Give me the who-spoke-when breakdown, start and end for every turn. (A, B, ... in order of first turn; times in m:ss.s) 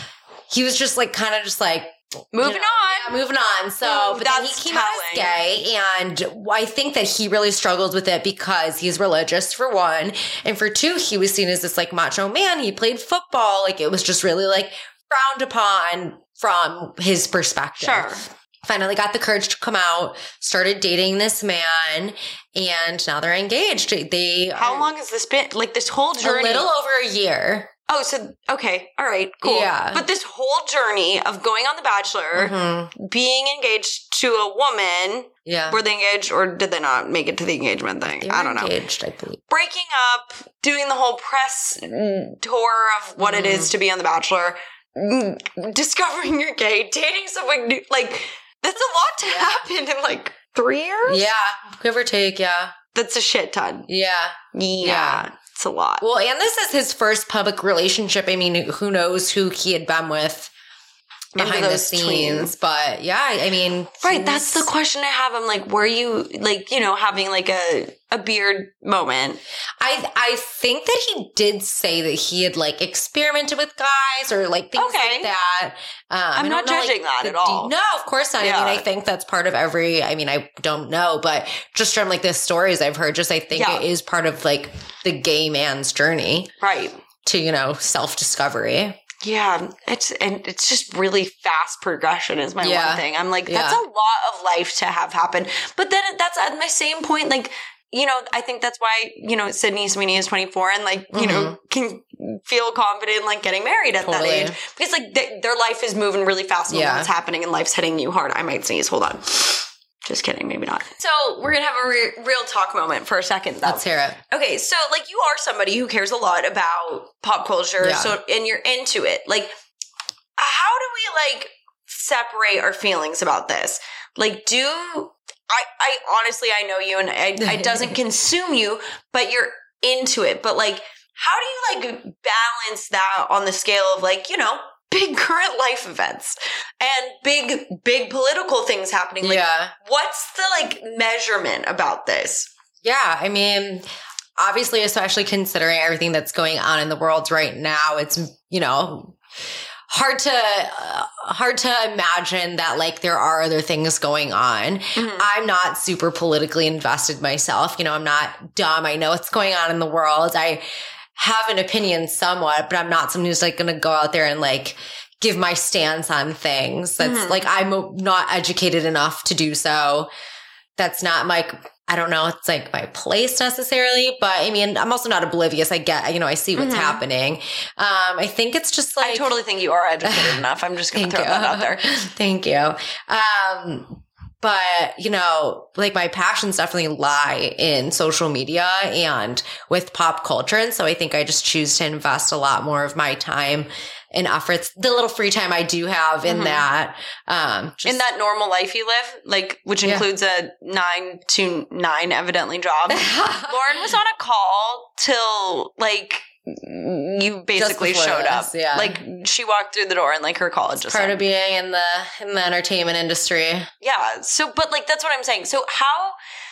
0:00.5-0:24.9 A
0:02.3-0:03.2 B
0:03.8-0:05.4 B
0:17.8-0:18.2 B
0:24.6-0:26.7 B
0:26.2-0:27.7 A
0:27.9-0:38.7 B
0:29.4-0:30.0 A
0:32.4-0:32.9 A
0:35.5-0:35.8 A
0:38.2-0:39.4 A
0:39.5-0:51.3 B
0:43.2-0:43.7 A
0:49.2-0:49.7 A
0:51.1-0:52.8 A
0:52.9-0:53.9 B
0:53.9-0:55.2 A
0:54.5-0:56.0 B
0:56.0-1:00.5 A
1:01.3-1:04.7 A
1:01.4-1:02.5 B
1:04.0-1:09.4 B
1:09.8-1:26.5 A
1:14.8-1:15.3 B
1:16.4-1:17.7 B
1:18.4-1:18.8 B
1:23.5-1:23.9 B
1:26.6-1:27.0 B
1:27.2-1:29.0 A
1:29.2-1:59.5 B
1:32.6-1:33.8 A
1:41.1-1:41.6 A
1:44.0-1:44.6 A
1:46.7-1:47.1 A
1:53.6-1:54.2 A
1:57.8-1:58.2 A
2:00.4-2:22.5 B
2:07.4-2:08.0 A
2:19.2-2:19.7 A
2:22.8-2:23.8 A
2:24.4-2:29.2 A
2:29.9-2:40.6 A
2:35.0-2:35.3 B
2:41.2-2:50.1 A
2:47.0-2:47.4 B
2:50.8-2:59.3 A
2:56.6-2:57.0 B
2:59.0-3:01.9 B
3:00.0-3:18.0 A
3:16.2-3:16.7 B
3:17.8-3:31.2 B
3:22.9-3:24.0 A
3:27.6-3:29.0 A
3:30.9-3:33.7 A
3:33.8-3:36.2 B